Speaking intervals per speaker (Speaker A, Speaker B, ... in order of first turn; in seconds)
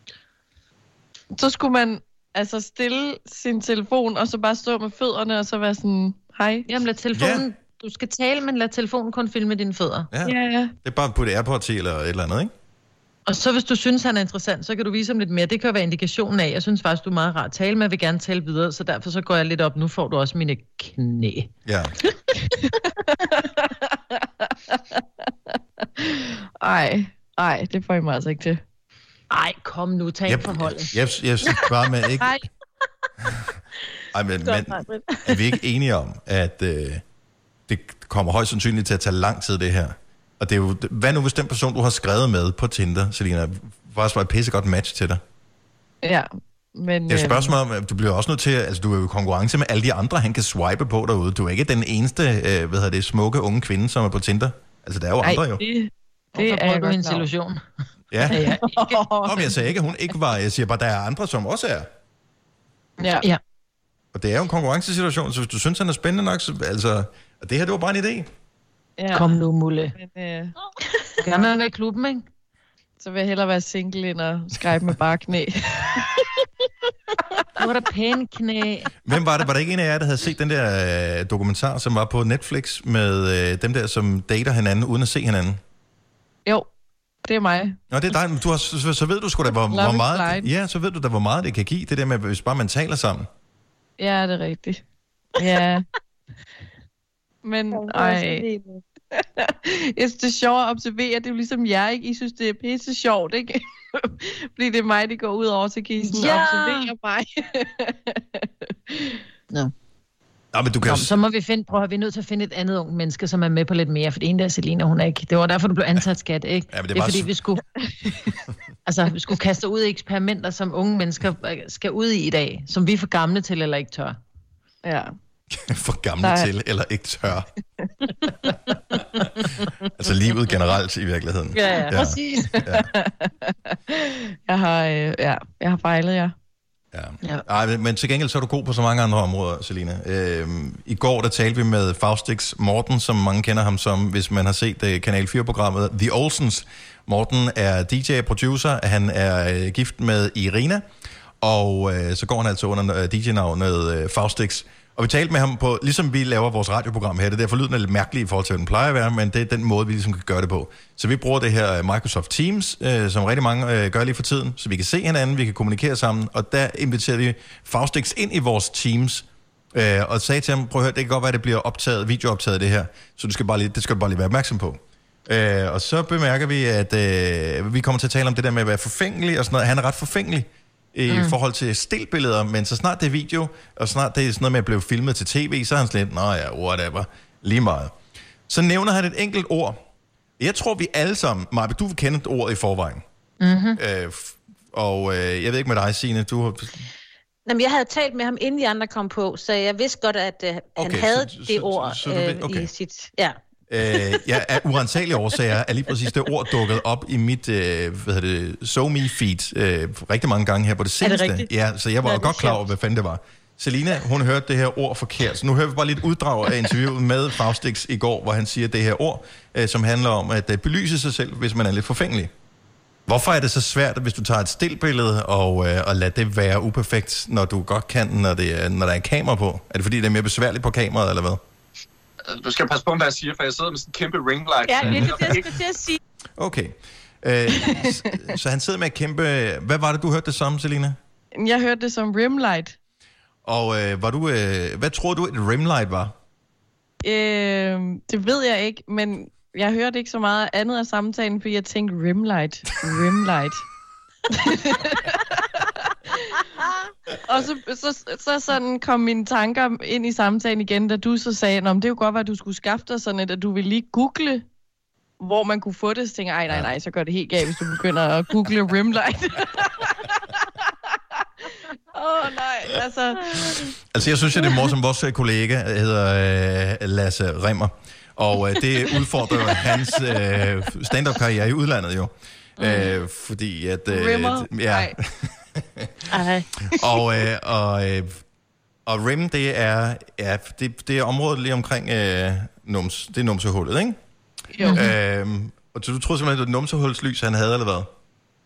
Speaker A: 1.3-6.7, 10.2-10.7, 22.3-28.6, 32.2-32.4, 34.4-35.4, 46.0-47.5, 55.2-57.2, 58.2-59.5, 63.0-63.2, 69.0-69.3, 69.9-70.5, 73.0-76.5, 87.2-87.8, 89.5-90.5, 94.0-94.8, 95.4-95.8, 97.4-98.5, 99.1-109.2, 124.8-125.1, 126.2-126.5, 132.3-136.3, 241.3-242.8, 247.0-253.6, 254.3-256.5, 257.2-264.4, 265.2-273.7, 274.4-274.7, 278.9-280.1, 283.9-284.9, 294.5-294.9
Speaker B: 6.7-10.1, 13.2-21.5, 29.3-30.9, 56.3-57.6, 58.3-59.0, 63.0-63.4, 69.1-69.9, 71.2-72.2, 77.5-78.9, 110.8-117.6, 118.8-124.2, 131.6-132.6, 181.1-181.3, 193.4-193.8
Speaker C: 7.1-7.5, 10.1-12.5, 21.6-21.9, 30.3-32.4, 34.1-37.0, 37.7-45.2, 47.1-55.6, 58.1-58.4, 59.2-61.9, 64.1-68.3, 79.0-85.6, 87.9-93.3, 110.5-111.2, 116.7-117.3, 125.5-127.5, 129.2-132.9, 136.9-150.8, 151.4-187.9, 188.5-189.8, 190.4-193.0, 193.8-196.9, 200.8-202.7, 203.7-222.3, 223.1-231.4, 234.8-235.3, 236.4-241.0, 243.4-246.1, 273.5-288.2, 288.9-294.0, 294.6-297.9
Speaker D: 97.7-98.8, 106.1-106.9, 131.6-131.9, 197.4-203.4, 211.0-211.5, 212.0-212.6, 234.7-236.0, 286.1-286.5
Speaker E: 232.3-235.6